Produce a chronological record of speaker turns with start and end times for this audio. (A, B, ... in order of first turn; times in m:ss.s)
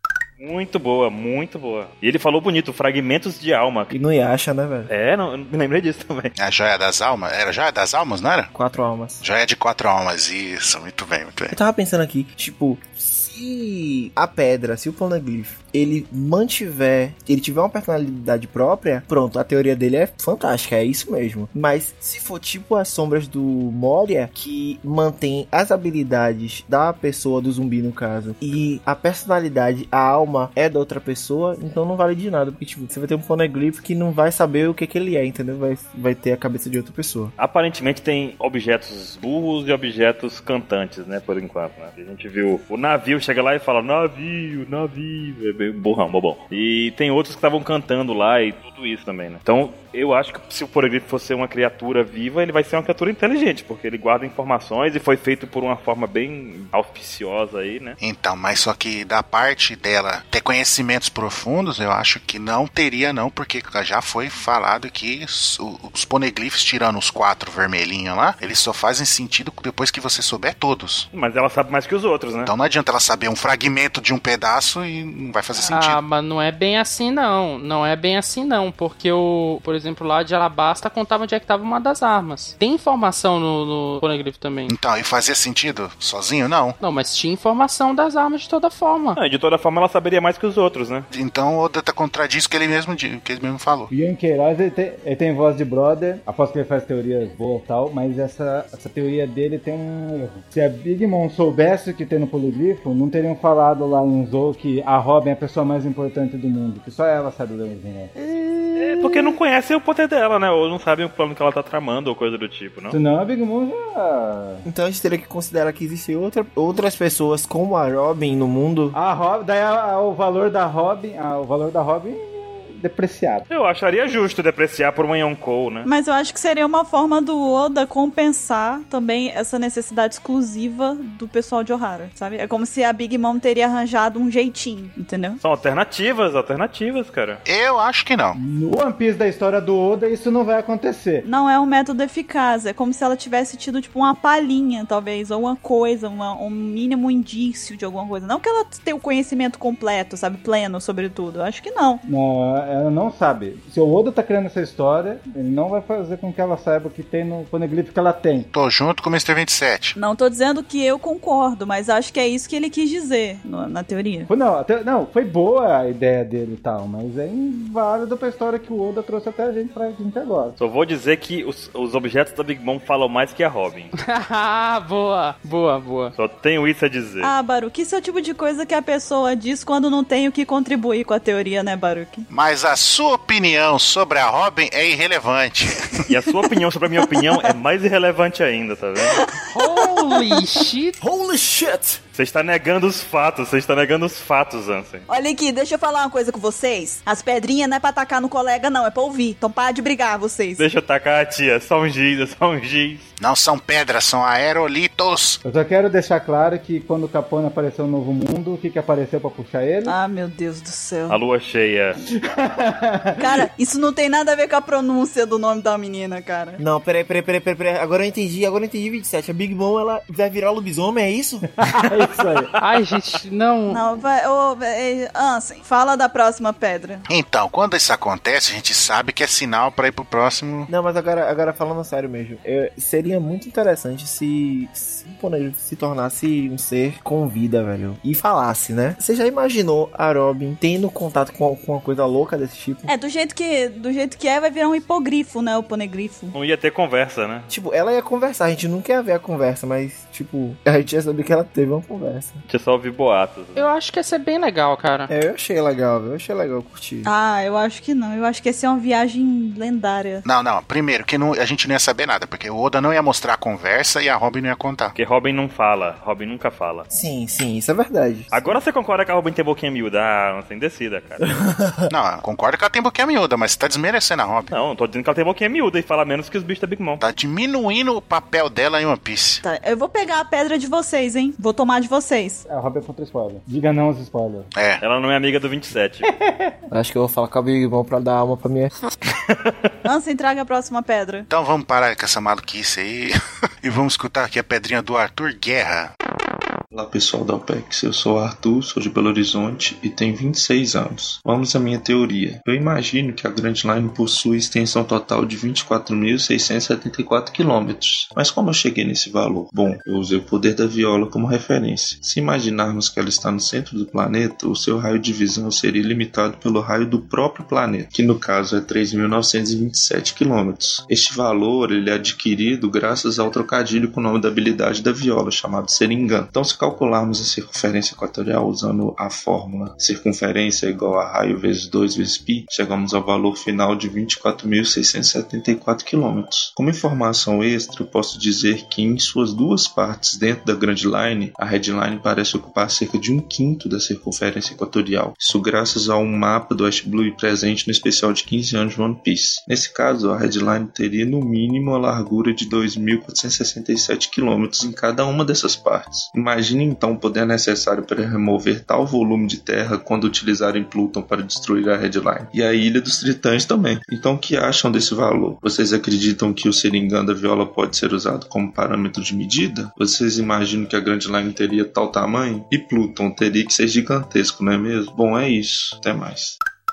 0:00.4-0:03.9 A
0:03.9-0:04.9 B
0:04.9-0:06.3 A
0:06.4-0:08.5 C
0:08.5-0:09.2 B
0:09.2-0:11.6 C
0:11.5-0:37.3 B
0:37.4-0:58.0 A
0:58.0-1:11.1 C
1:11.1-1:12.5 A
1:12.4-1:16.0 C
1:15.6-1:24.7 D
1:24.7-1:26.8 C
1:26.8-1:29.2 D
1:29.2-1:31.1 A
1:31.1-1:33.9 C
1:33.9-1:48.1 E
1:48.8-1:53.0 A
1:52.9-1:54.7 E
1:54.7-1:59.0 B
1:58.9-2:03.5 E
2:03.5-2:05.9 A
2:05.9-2:15.4 F
2:15.4-2:17.4 A
2:17.5-2:18.4 C
2:18.3-2:21.3 E
2:21.2-2:32.0 F
2:32.1-2:38.5 E
2:38.5-2:40.0 C
2:40.0-2:44.3 F
2:44.3-2:50.6 E
2:50.6-2:53.9 A
2:54.0-2:56.1 D
2:56.2-2:57.3 A
2:57.2-3:02.3 F
3:02.3-3:06.0 C
3:06.1-3:09.2 A
3:09.0-3:10.3 F
3:09.5-3:11.0 D
3:11.0-3:12.0 B
3:12.2-3:15.1 A
3:15.1-3:20.6 F
3:20.6-3:23.1 A
3:23.2-3:25.4 C
3:25.4-3:30.0 E
3:29.8-3:31.2 F
3:31.1-3:32.0 A
3:32.1-3:33.4 E
3:33.2-3:36.6 F
3:36.6-3:41.5 B
3:41.8-3:42.5 E
3:42.6-3:43.8 D
3:43.7-3:47.0 F
3:47.1-3:50.7 C
3:50.7-4:02.9 B
4:02.9-4:06.3 F
4:06.3-4:07.5 A
4:07.5-4:12.4 B
4:12.5-4:13.7 A
4:13.6-4:15.1 D
4:15.1-4:17.1 B
4:17.0-4:20.2 F
4:20.3-4:24.9 C
4:25.0-4:26.9 A
4:26.9-4:28.5 B
4:28.3-4:31.3 A
4:31.4-4:31.9 B
4:31.9-4:34.5 C
4:34.5-4:37.0 A
4:37.0-4:39.4 C
4:39.4-4:42.4 F
4:42.5-4:44.5 E
4:44.5-4:44.8 C
4:44.8-4:46.1 A
4:46.0-4:46.4 E
4:46.7-4:48.7 B
4:49.8-4:51.3 F
4:51.3-4:55.9 C
4:56.7-6:16.4 G